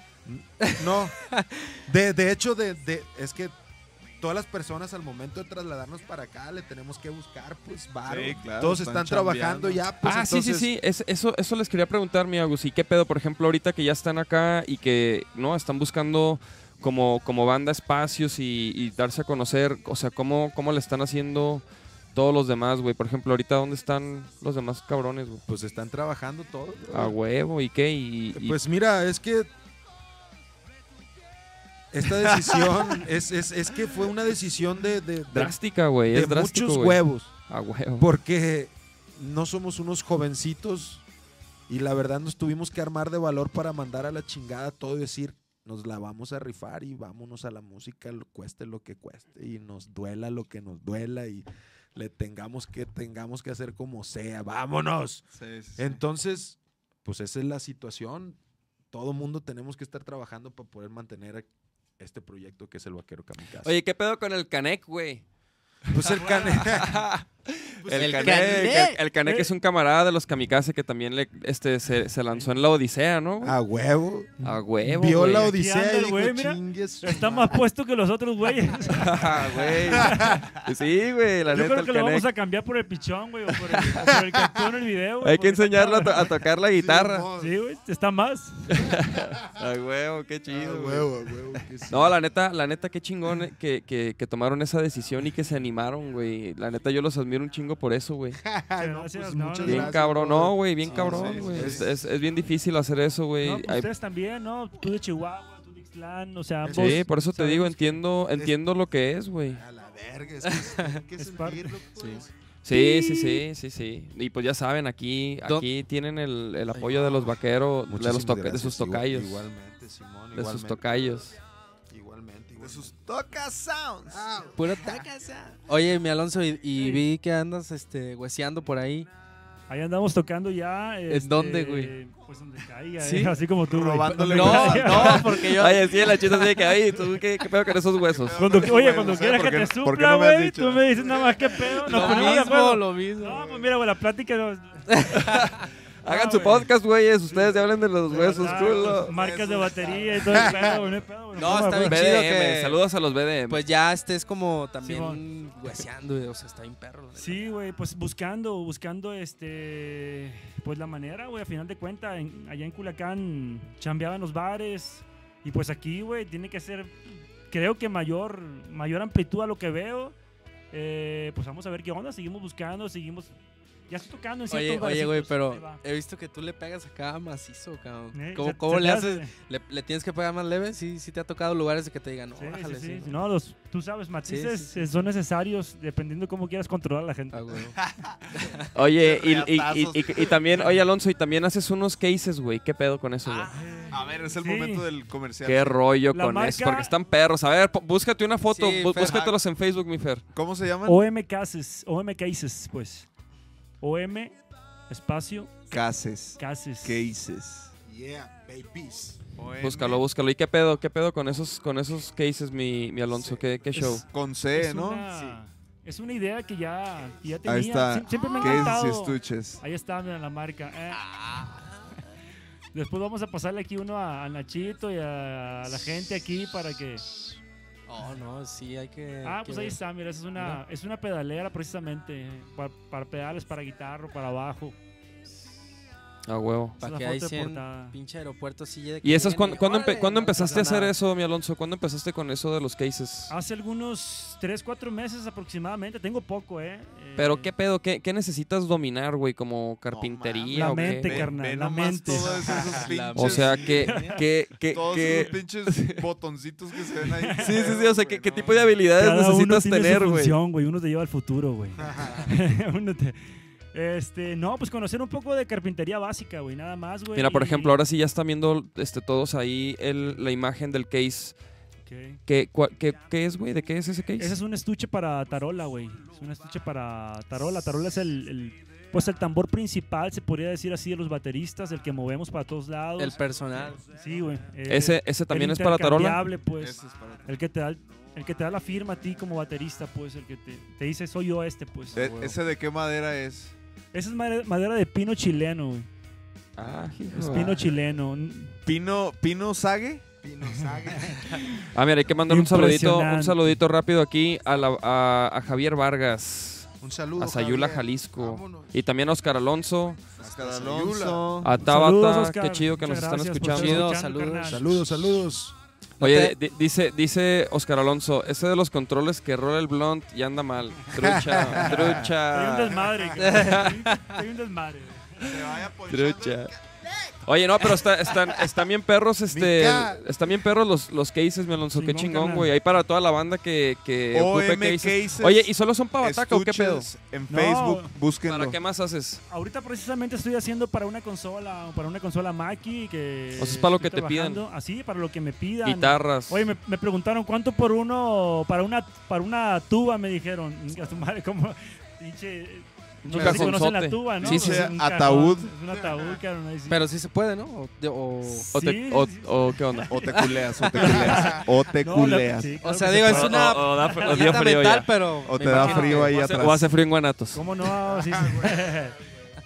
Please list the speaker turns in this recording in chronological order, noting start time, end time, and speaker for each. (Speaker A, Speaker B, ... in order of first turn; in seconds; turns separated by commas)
Speaker A: 0.2-1.2, Speaker B: 0.6-1.8, Speaker A: 1.9-3.6, Speaker A: 4.2-10.7, Speaker C: 8.1-9.8, Speaker D: 10.0-25.4, Speaker A: 25.5-27.2, Speaker D: 26.9-28.6, Speaker A: 28.3-29.5, Speaker A: 31.9-35.6, Speaker C: 32.1-33.0, Speaker D: 35.3-38.1, Speaker A: 36.1-37.4, Speaker A: 38.0-41.0, Speaker A: 41.7-58.4, Speaker C: 55.4-56.0, Speaker A: 58.9-61.5, Speaker A: 62.0-63.8, Speaker D: 63.6-65.2, Speaker A: 65.9-67.1, Speaker E: 66.2-66.6, Speaker D: 66.3-73.6, Speaker A: 67.8-68.7, Speaker B: 68.0-69.0, Speaker E: 69.2-69.5, Speaker A: 73.4-77.7, Speaker D: 74.4-75.5, Speaker E: 75.0-80.5, Speaker D: 78.9-82.3, Speaker A: 79.9-80.5, Speaker E: 81.5-86.3, Speaker D: 85.2-87.3, Speaker A: 86.8-87.6, Speaker E: 87.3-88.9, Speaker D: 88.7-91.1, Speaker A: 90.5-92.2, Speaker D: 91.9-98.4, Speaker A: 98.5-102.0, Speaker E: 98.8-100.0, Speaker D: 99.7-103.9, Speaker C: 100.9-101.9, Speaker E: 103.4-108.0, Speaker A: 106.6-107.1, Speaker D: 106.7-109.6, Speaker A: 109.5-112.3, Speaker B: 110.5-111.0, Speaker E: 111.2-111.8, Speaker B: 112.0-113.4, Speaker D: 112.7-119.5, Speaker B: 116.7-117.2, Speaker A: 117.9-121.2, Speaker D: 120.3-121.4, Speaker A: 121.9-122.9, Speaker C: 122.6-124.3, Speaker A: 124.1-125.1, Speaker B: 124.5-129.1, Speaker E: 126.8-127.0, Speaker E: 129.7-135.4, Speaker B: 131.1-131.9, Speaker B: 133.0-133.4, Speaker C: 133.7-135.3, Speaker B: 134.0-136.7, Speaker D: 134.9-138.4, Speaker C: 138.0-142.4, Speaker E: 138.3-145.5, Speaker B: 141.8-143.4, Speaker B: 144.9-145.6, Speaker D: 146.0-149.1, Speaker E: 146.1-146.7, Speaker E: 147.3-152.1, Speaker B: 148.1-148.7, Speaker C: 148.2-150.9, Speaker A: 150.3-150.7, Speaker B: 151.3-152.8, Speaker D: 151.8-153.7, Speaker B: 153.5-157.5, Speaker E: 154.8-155.2, Speaker E: 157.2-170.2, Speaker E: 170.7-173.3, Speaker E: 173.9-175.8, Speaker B: 174.5-183.2, Speaker E: 178.1-179.3, Speaker E: 182.4-187.7, Speaker B: 184.2-184.9, Speaker B: 187.3-187.8, Speaker C: 187.8-190.8, Speaker B: 188.3-188.7, Speaker D: 188.8-193.5, Speaker B: 193.2-193.9, Speaker E: 193.6-194.9, Speaker C: 193.9-195.8, Speaker D: 195.4-200.2, Speaker E: 196.1-196.9, Speaker B: 198.5-199.2, Speaker C: 198.9-199.4, Speaker C: 200.3-201.1, Speaker E: 200.8-203.1, Speaker E: 203.8-204.4, Speaker E: 204.9-205.9, Speaker C: 205.7-207.7, Speaker E: 206.4-207.0, Speaker A: 207.8-209.2, Speaker C: 209.4-210.0, Speaker D: 209.6-214.1, Speaker E: 213.8-221.1, Speaker C: 213.8-215.1, Speaker A: 215.1-215.4, Speaker C: 217.4-219.6, Speaker B: 220.9-221.9, Speaker E: 222.7-227.0, Speaker B: 227.9-229.8, Speaker E: 229.2-234.8, Speaker D: 236.3-236.8, Speaker B: 236.8-240.9, Speaker E: 236.8-238.0, Speaker D: 239.0-243.3, Speaker E: 240.0-240.9, Speaker E: 243.3-247.5, Speaker D: 247.2-251.3, Speaker C: 249.9-253.7, Speaker E: 250.5-252.7, Speaker B: 252.6-254.2, Speaker D: 253.1-256.1, Speaker E: 253.8-254.2, Speaker C: 254.7-258.8, Speaker E: 257.0-257.7, Speaker D: 257.4-260.4, Speaker E: 258.9-267.8, Speaker A: 261.8-262.3, Speaker D: 267.1-271.4, Speaker E: 271.9-272.2, Speaker D: 272.3-274.4, Speaker E: 274.2-283.2, Speaker B: 283.0-283.8, Speaker E: 283.8-292.1, Speaker D: 284.7-286.2, Speaker C: 286.6-287.4, Speaker C: 291.9-293.5, Speaker B: 291.9-292.4, Speaker E: 293.9-295.9, Speaker D: 296.6-297.7, Speaker E: 297.1-298.6, Speaker C: 298.6-300.0, Speaker A: 300.2-301.4, Speaker D: 301.6-310.0, Speaker E: 302.3-303.4, Speaker A: 306.8-308.7, Speaker A: 310.2-311.3, Speaker C: 310.2-311.5, Speaker D: 311.4-313.9, Speaker E: 311.6-315.0, Speaker B: 313.5-314.6, Speaker A: 314.5-315.6, Speaker B: 316.0-316.4, Speaker D: 316.0-323.7, Speaker A: 320.9-322.1, Speaker E: 321.4-325.4, Speaker B: 323.2-324.1, Speaker C: 325.2-326.6, Speaker D: 325.9-326.5, Speaker D: 327.2-336.9, Speaker A: 329.3-330.1, Speaker E: 331.7-332.5, Speaker C: 334.1-338.6, Speaker E: 337.3-337.9, Speaker D: 338.2-339.2, Speaker E: 339.3-356.8, Speaker D: 343.4-344.4, Speaker D: 345.6-346.4, Speaker D: 353.0-354.7, Speaker B: 353.1-353.6, Speaker C: 354.2-355.5, Speaker B: 356.7-358.5, Speaker E: 358.4-364.2, Speaker D: 358.5-361.3, Speaker C: 359.9-362.5, Speaker B: 362.6-366.3, Speaker D: 363.1-364.9, Speaker C: 365.3-366.7, Speaker E: 365.4-366.1, Speaker D: 366.0-367.4, Speaker E: 367.3-369.0, Speaker A: 367.8-368.8